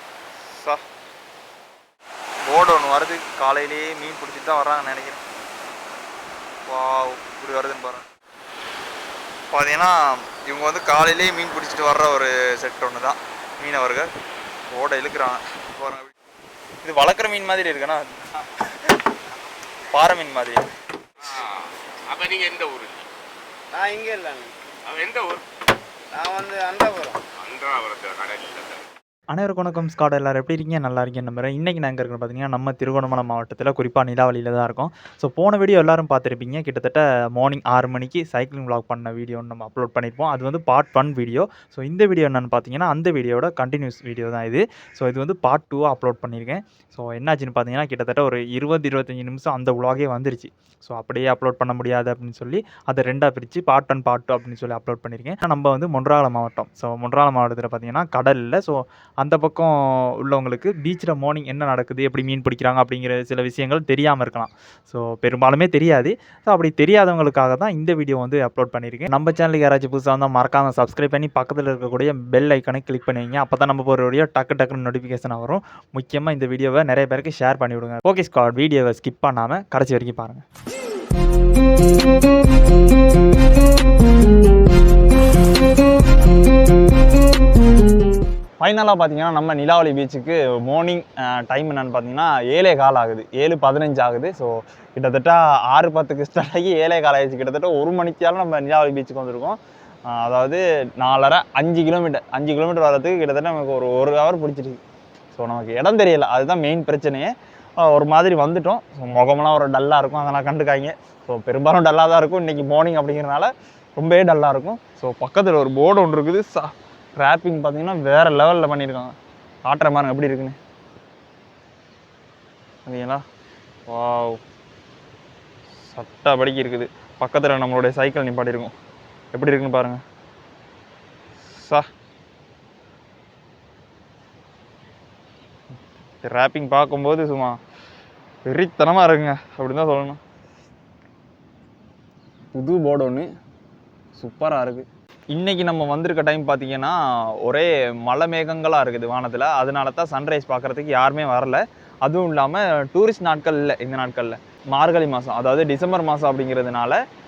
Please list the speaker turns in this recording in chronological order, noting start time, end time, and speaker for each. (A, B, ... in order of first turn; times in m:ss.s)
0:00.4-0:00.8 A
0:02.4-0:05.2 A
0:06.7-0:08.0 A
0:09.5-0:14.1 A
0:14.7-0:16.1 A
0:16.8-0:18.1 A
0:19.9-0:20.7 A
0:21.3-0:23.1 B
0:23.7-0:24.5 C
0:24.8-0:25.4 B
0:26.1-0:27.2 C
0:27.4-0:28.9 B
0:29.3-1:20.4 A
1:28.6-1:39.6 A
1:40.1-1:44.8 A
1:45.3-1:59.1 A
1:59.6-2:00.6 A
2:02.8-2:03.2 A
2:03.9-2:04.4 A
2:05.8-2:08.7 A
2:09.3-2:10.0 A
2:11.5-2:11.8 A
2:16.2-2:17.6 A
2:18.4-2:20.2 A
2:22.5-2:23.3 A
2:24.2-2:37.0 A